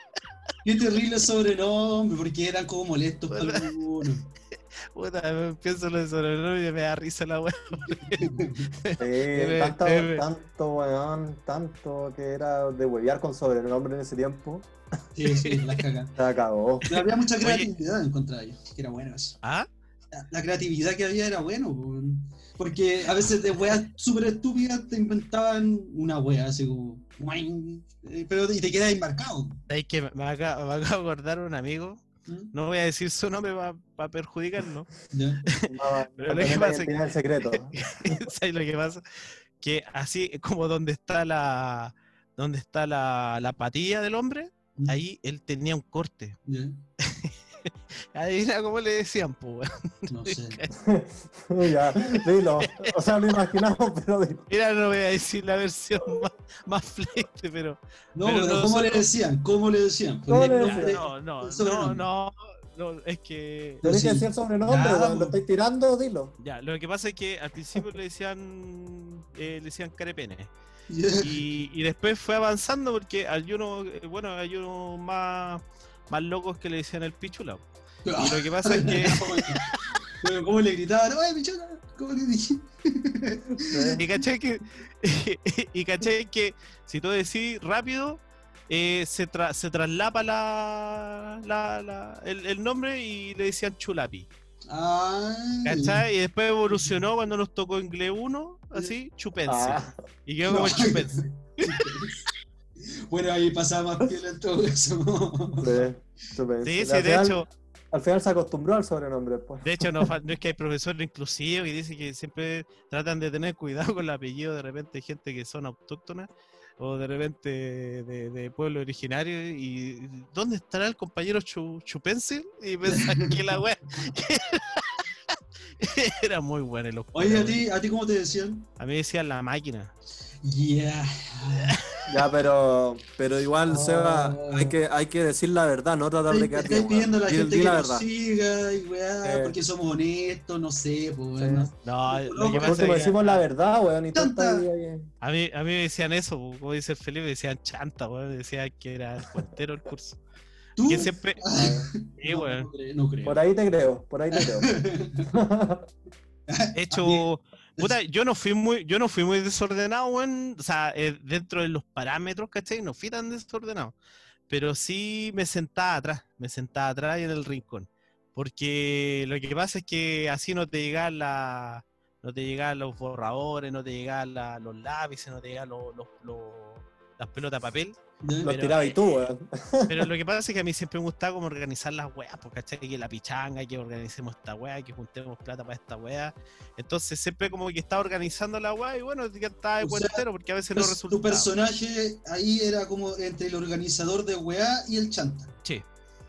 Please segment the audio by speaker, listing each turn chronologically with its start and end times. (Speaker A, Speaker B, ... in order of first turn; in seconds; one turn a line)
Speaker A: 0.6-4.3
Speaker B: 3.3-3.7
Speaker B: 4.9-10.3
Speaker A: 8.2-8.7
Speaker C: 9.0-14.7
Speaker A: 15.2-16.1
Speaker C: 16.2-16.9
Speaker A: 16.9-19.4
Speaker B: 17.4-17.7
Speaker B: 19.4-19.7
Speaker A: 20.1-29.6
Speaker B: 29.7-34.9
Speaker A: 32.3-32.5
Speaker A: 35.1-35.4
Speaker B: 35.5-39.0
Speaker C: 35.7-38.2
Speaker B: 39.6-46.4
Speaker A: 46.5-46.8
Speaker B: 47.0-50.7
Speaker A: 50.1-50.6
Speaker C: 50.7-54.4
Speaker B: 52.0-52.9
Speaker B: 54.5-59.0
Speaker A: 58.1-62.0
Speaker C: 60.3-61.0
Speaker B: 60.6-63.8
Speaker A: 63.8-65.4
Speaker C: 63.8-66.3
Speaker B: 66.4-70.5
Speaker A: 70.9-71.3
Speaker B: 71.2-77.6
Speaker A: 78.0-79.7
Speaker B: 78.2-79.9
Speaker A: 80.2-84.0
Speaker C: 83.6-84.0
Speaker B: 84.0-94.3
Speaker A: 94.7-96.0
Speaker B: 95.7-101.9
Speaker C: 99.5-100.0
Speaker A: 100.5-102.2
Speaker A: 103.1-105.8
Speaker C: 105.6-110.1
Speaker B: 106.6-107.5
Speaker B: 109.6-125.0
Speaker A: 122.9-123.4
Speaker B: 125.8-127.6
Speaker A: 127.1-128.7
Speaker B: 128.8-129.9
Speaker A: 130.4-131.8
Speaker C: 132.1-138.1
Speaker A: 133.7-134.8
Speaker A: 136.3-143.1
Speaker C: 139.2-139.6
Speaker C: 141.4-141.7
Speaker B: 141.8-143.4
Speaker C: 142.5-145.1
Speaker A: 144.1-144.7
Speaker B: 145.2-150.2
Speaker A: 150.8-153.4
Speaker B: 150.8-151.4
Speaker C: 151.5-151.9
Speaker B: 152.2-152.7
Speaker C: 153.2-154.8
Speaker A: 154.3-155.3
Speaker C: 155.3-155.9
Speaker A: 156.5-157.2
Speaker B: 156.7-164.0
Speaker B: 164.5-179.0
Speaker A: 178.2-178.5
Speaker C: 178.4-180.1
Speaker B: 179.9-191.5
Speaker A: 189.8-190.2
Speaker A: 190.8-195.5